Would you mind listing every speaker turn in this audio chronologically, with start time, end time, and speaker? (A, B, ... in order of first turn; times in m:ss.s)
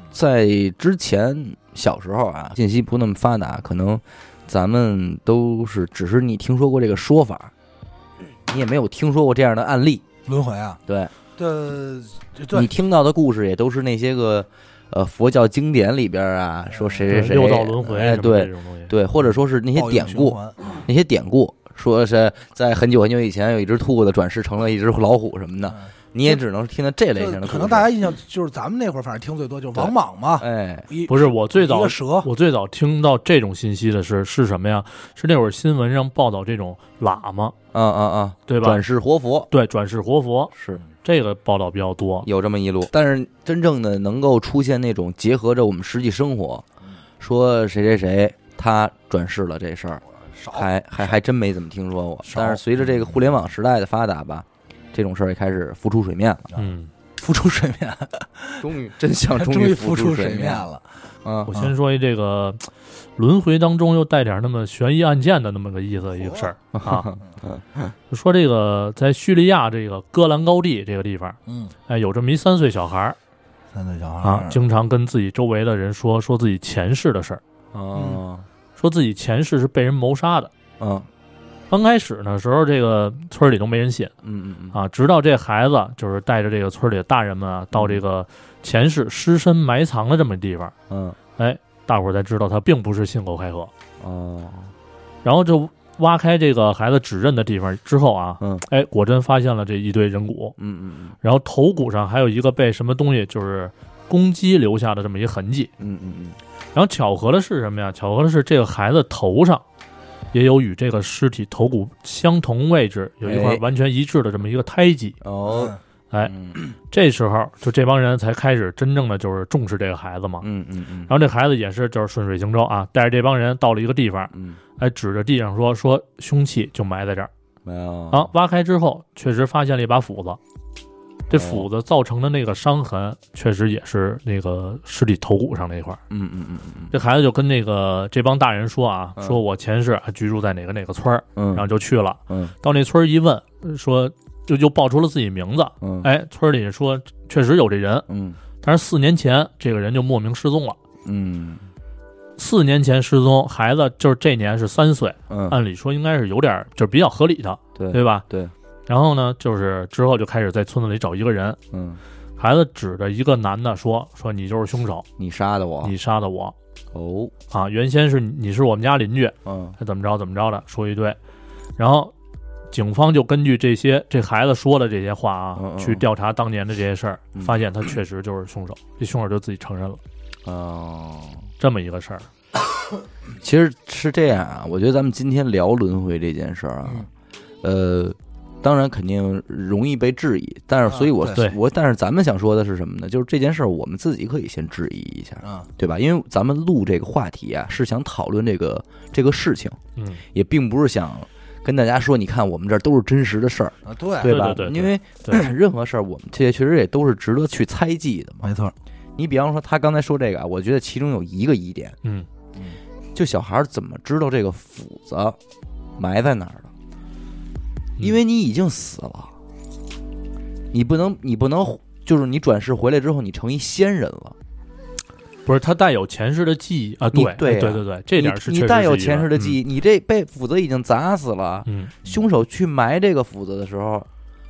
0:00.1-0:07.5 A
0:08.5-0:10.0 A
0:10.2-0:10.8 B
0:10.9-0:11.1 A
0:11.4-0:12.7 B
0:12.5-0:27.9 A
0:16.7-0:17.1 B
0:17.1-0:18.9 C
0:19.7-0:20.6 B
0:25.7-0:26.4 B
0:27.1-0:32.3 B
0:29.7-0:30.9 A
0:31.1-0:37.5 C
0:37.7-0:39.5 A
0:38.5-0:38.8 C
0:39.5-0:40.5 C
0:40.5-0:40.8 A
0:41.0-0:42.3 C
0:42.2-0:46.6 A
0:47.2-0:56.5 A
0:50.3-0:51.2 B
0:52.2-0:52.6 B
0:56.5-0:58.6 B
0:56.6-0:56.9 C
0:58.6-1:00.6 A
0:59.3-1:00.9 B
1:01.2-1:01.5 A
1:01.5-1:07.1 C
1:06.1-1:06.5 B
1:06.7-1:07.9 A
1:08.1-1:13.2 C
1:11.5-1:11.7 B
1:13.7-1:14.6 B
1:14.2-1:17.4 C
1:17.7-1:18.4 A
1:17.9-1:18.2 B
1:18.8-1:20.5 C
1:20.8-1:21.1 A
1:21.7-1:24.1 C
1:24.2-1:24.8 A
1:24.7-1:30.7 C
1:27.7-1:28.0 A
1:30.9-1:31.2 A
1:31.4-1:33.7 C
1:34.0-1:34.7 A
1:35.2-1:40.5 C
1:38.4-1:38.6 A
1:40.6-1:41.2 A
1:41.2-1:45.7 C
1:45.8-1:46.4 A
1:46.7-1:49.6 C
1:50.3-1:55.2 C
1:53.2-1:53.6 A
1:55.2-1:56.5 A
1:55.5-1:55.8 B
1:56.1-2:00.4 C
2:00.4-2:01.1 A
2:01.1-2:07.3 C
2:04.3-2:04.6 A
2:07.6-2:08.3 A
2:08.1-2:10.4 C
2:11.3-2:16.0 C
2:11.3-2:11.6 A
2:16.1-2:16.9 A
2:16.9-2:28.0 C
2:21.3-2:21.6 A
2:22.3-2:22.5 A
2:25.8-2:26.1 A
2:28.1-2:28.4 A
2:28.6-2:30.8 C
2:31.0-2:31.7 A
2:32.4-2:38.2 C
2:35.3-2:35.6 A
2:37.7-2:38.5 A
2:38.9-2:41.6 C
2:41.7-2:42.0 A
2:42.4-2:45.0 C
2:45.2-2:45.9 A
2:45.8-2:46.5 C
2:46.9-2:47.3 A
2:47.5-2:51.2 C
2:49.4-2:49.7 A
2:51.8-2:52.1 C
2:52.7-3:00.0 C
2:55.6-2:56.0 A
3:00.4-3:01.5 A
3:01.6-3:02.3 C
3:03.4-3:07.1 A
3:07.6-3:19.8 A
3:10.9-3:11.4 B
3:15.4-3:15.7 B
3:20.3-3:28.5 A
3:23.8-3:24.4 B
3:24.2-3:25.4 C
3:28.4-3:28.7 B
3:29.2-3:32.0 A
3:33.1-3:35.4 A
3:36.0-3:36.7 A
3:38.0-3:39.3 A
3:40.7-3:44.3 A
3:45.4-3:49.6 C
3:47.1-3:54.1 A
3:51.6-3:51.9 C